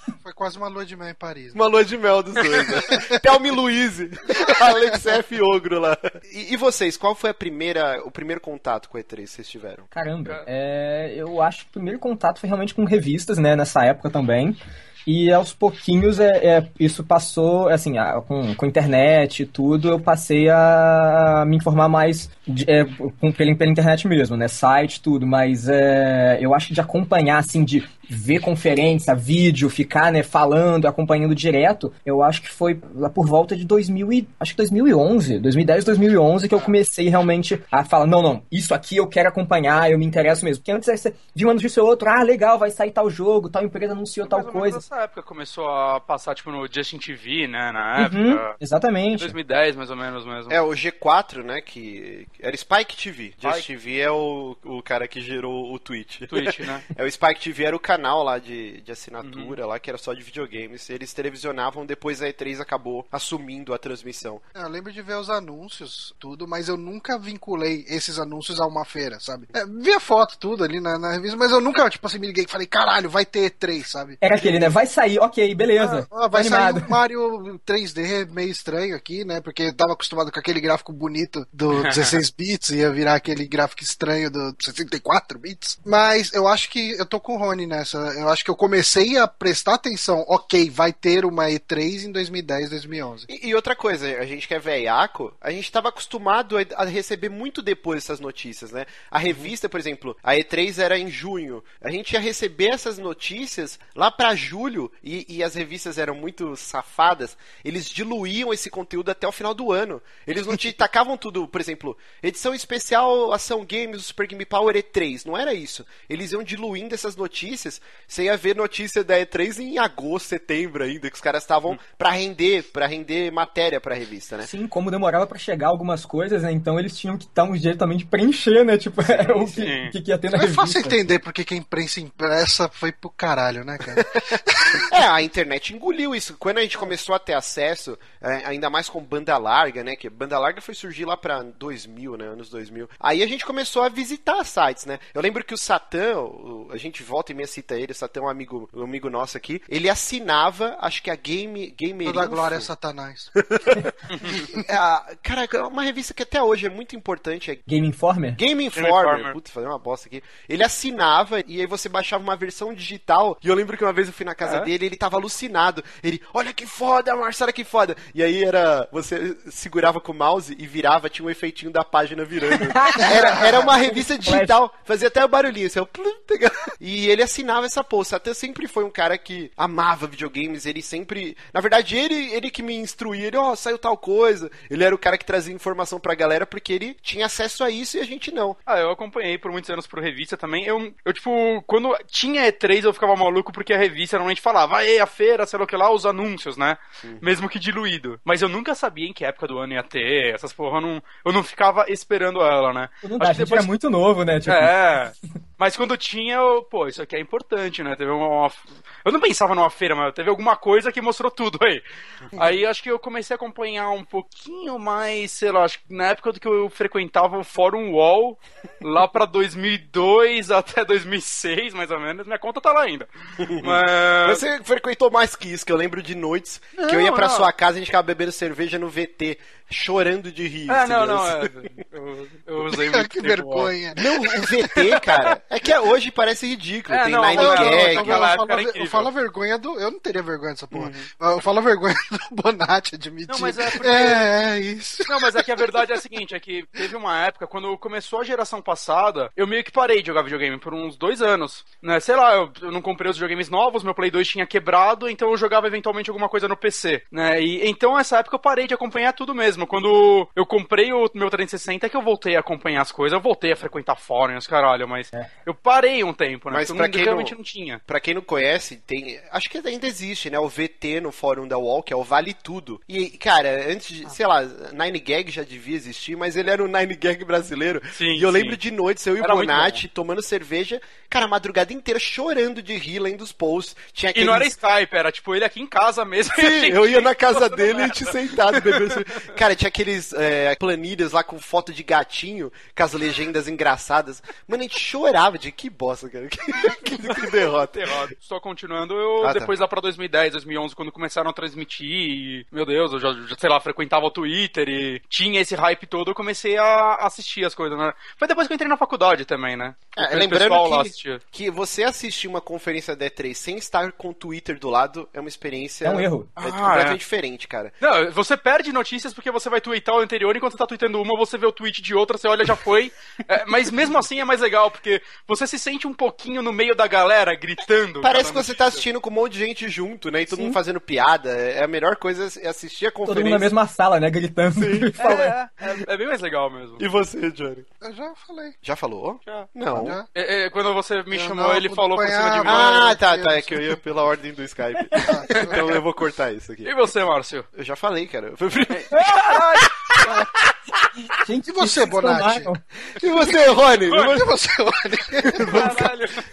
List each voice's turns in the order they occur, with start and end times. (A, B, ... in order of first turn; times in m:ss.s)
0:00.2-0:01.6 A
0:01.6-0:09.9 B
0:09.9-0:44.8 C
0:44.2-0:48.5 D
0:48.0-0:49.4 C
0:49.1-0:50.6 D
0:50.5-1:04.4 B
0:56.3-0:56.9 D
0:59.2-0:59.6 D
1:04.6-1:14.2 A
1:14.2-1:17.0 C
1:15.8-1:33.3 A
1:21.7-1:22.1 D
1:33.3-2:04.5 B
2:04.4-2:11.0 C
2:09.1-2:09.6 B
2:09.6-2:09.9 D
2:10.3-2:14.9 A
2:14.8-2:32.7 B
2:32.0-2:33.3 A
2:33.4-2:37.6 B
2:37.7-2:38.4 C
2:38.4-3:08.6 B
2:38.8-2:39.3 D
2:44.4-2:44.7 D
2:52.7-2:54.6 C
3:08.7-3:23.7 D
3:23.0-3:24.9 C
3:24.5-3:31.8 D
3:32.4-3:44.4 D
3:43.4-3:51.5 B
3:46.8-3:47.5 D
3:50.7-3:54.0 D
3:52.7-3:54.0 A
3:54.0-3:58.3 B
3:54.7-3:55.2 D
3:56.9-3:59.1 D
3:57.4-4:05.6 A
4:00.7-4:01.0 B
4:03.3-4:04.3 D
4:05.0-4:27.8 D
4:26.5-4:27.4 B
4:27.9-4:44.5 B
4:37.9-4:38.6 D
4:39.2-4:39.8 D
4:44.1-4:49.0 D
4:46.3-4:58.0 B
4:57.7-5:11.2 D
4:59.2-4:59.5 B
5:10.0-5:17.7 B
5:15.8-5:16.3 C
5:16.4-5:17.0 D
5:17.8-5:28.8 D
5:28.0-5:33.5 B
5:33.1-5:35.4 C
5:34.6-5:34.9 B
5:35.0-5:36.9 D
5:36.8-5:37.7 B
5:37.8-5:38.6 A
5:38.6-5:40.0 B
5:39.7-5:40.1 A
5:40.1-5:42.8 D
5:41.1-5:43.8 A
5:42.4-5:46.7 B
5:45.0-5:45.6 A
5:46.6-5:47.5 D
5:47.5-5:50.9 B
5:48.7-5:49.7 D
5:49.0-5:49.2 C
5:51.2-5:52.6 C
5:51.5-5:52.5 A
5:53.0-5:54.3 B
5:53.9-5:54.2 D
5:54.0-5:55.7 A
5:55.2-5:55.9 B
5:55.4-5:56.2 D